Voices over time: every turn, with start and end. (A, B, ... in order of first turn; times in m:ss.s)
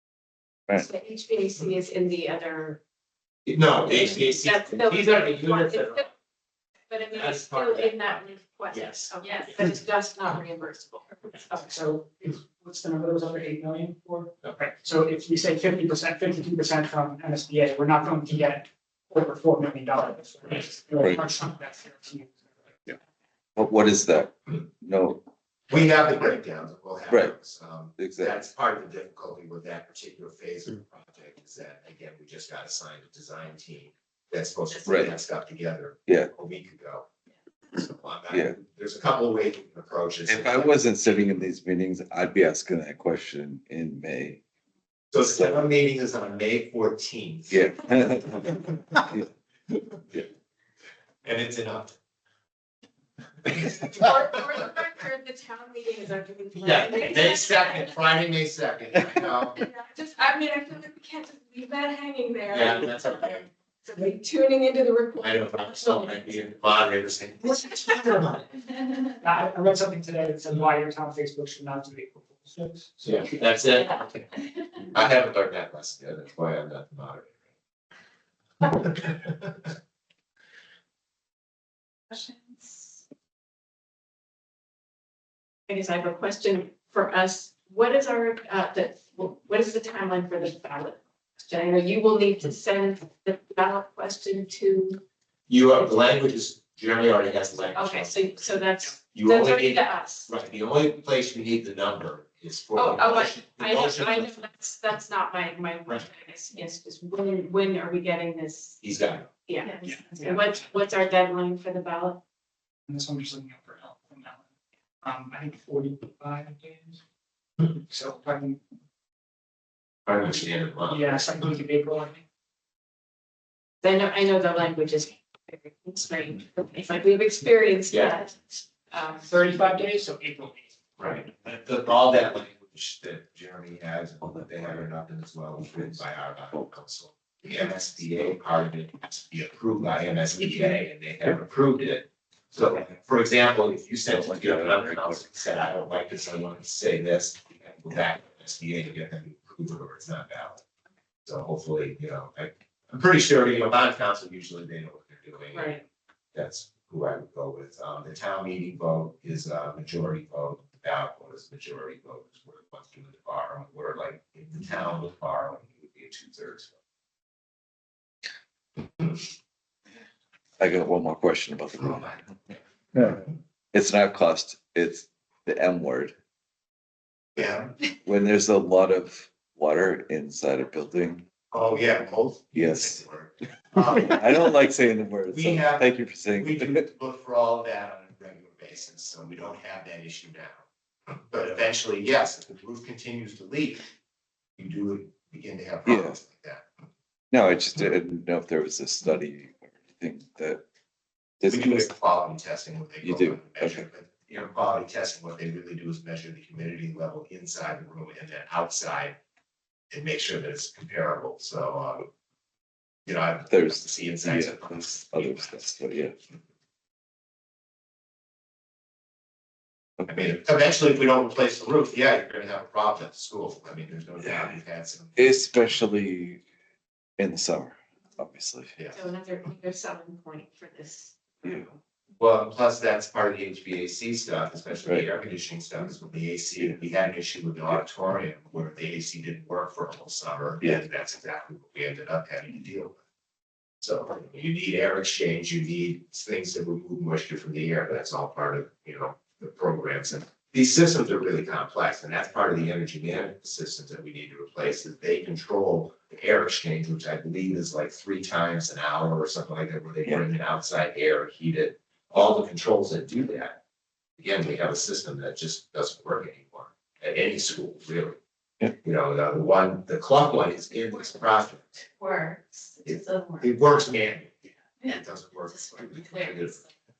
0:00.7-0:02.8 A
0:03.4-0:06.1 B
0:03.9-0:06.1 A
0:06.9-0:11.1 A
0:07.1-0:09.5 B
0:09.2-0:09.5 C
0:11.5-0:23.0 D
0:23.6-0:25.2 E
0:25.7-0:37.1 B
0:27.1-0:27.3 E
0:28.0-0:28.4 E
0:34.8-0:35.2 E
0:37.7-0:40.7 B
0:38.3-0:38.6 E
0:40.3-0:44.4 E
0:45.1-0:47.7 B
0:45.2-0:45.6 E
0:47.5-0:49.2 E
0:51.2-0:51.9 B
0:53.4-0:54.1 B
0:53.9-0:58.0 A
0:56.5-0:59.6 B
0:59.6-1:06.4 A
1:02.5-1:03.5 B
1:05.2-1:08.4 B
1:09.2-1:13.3 D
1:13.0-1:14.3 B
1:14.8-1:17.4 B
1:18.6-1:19.7 B
1:22.1-1:22.8 A
1:25.7-1:35.0 A
1:35.5-1:38.4 B
1:37.7-1:40.3 A
1:39.1-1:44.5 B
1:42.7-1:48.8 A
1:48.8-1:49.3 B
1:49.4-1:52.2 A
1:49.6-1:50.0 C
1:49.8-1:50.6 D
1:52.9-1:54.4 D
1:55.0-1:57.0 D
1:57.7-1:58.6 D
2:00.0-2:01.2 B
2:00.9-2:02.2 D
2:03.8-2:09.3 A
2:07.9-2:08.2 B
2:09.1-2:10.7 D
2:11.0-2:30.6 B
2:14.2-2:14.5 E
2:24.1-2:25.2 E
2:31.2-2:35.8 B
2:35.5-2:35.8 A
2:36.3-2:46.7 B
2:50.6-2:56.1 E
2:57.4-2:57.7 B
2:58.0-3:01.2 E
3:01.5-3:04.6 B
3:02.5-3:03.0 E
3:03.8-3:06.9 E
3:05.3-3:10.6 B
3:11.3-3:13.9 B
3:14.6-3:16.6 B
3:15.8-3:16.2 E
3:17.3-3:20.6 E
3:21.4-3:21.9 E
3:21.5-3:29.2 B
3:23.0-3:23.8 E
3:29.9-3:32.1 B
3:33.0-3:35.6 B
3:33.5-3:36.1 E
3:40.1-3:45.2 B
3:44.2-3:44.6 E
3:45.2-3:46.4 E
3:47.2-3:48.7 E
3:48.9-3:51.1 A
3:51.4-3:51.8 E
3:52.2-4:02.9 B
4:03.8-4:23.6 B
4:24.2-4:28.2 B
4:28.8-4:31.8 B
4:32.0-4:33.5 C
4:32.8-4:36.6 B
4:35.5-4:36.5 C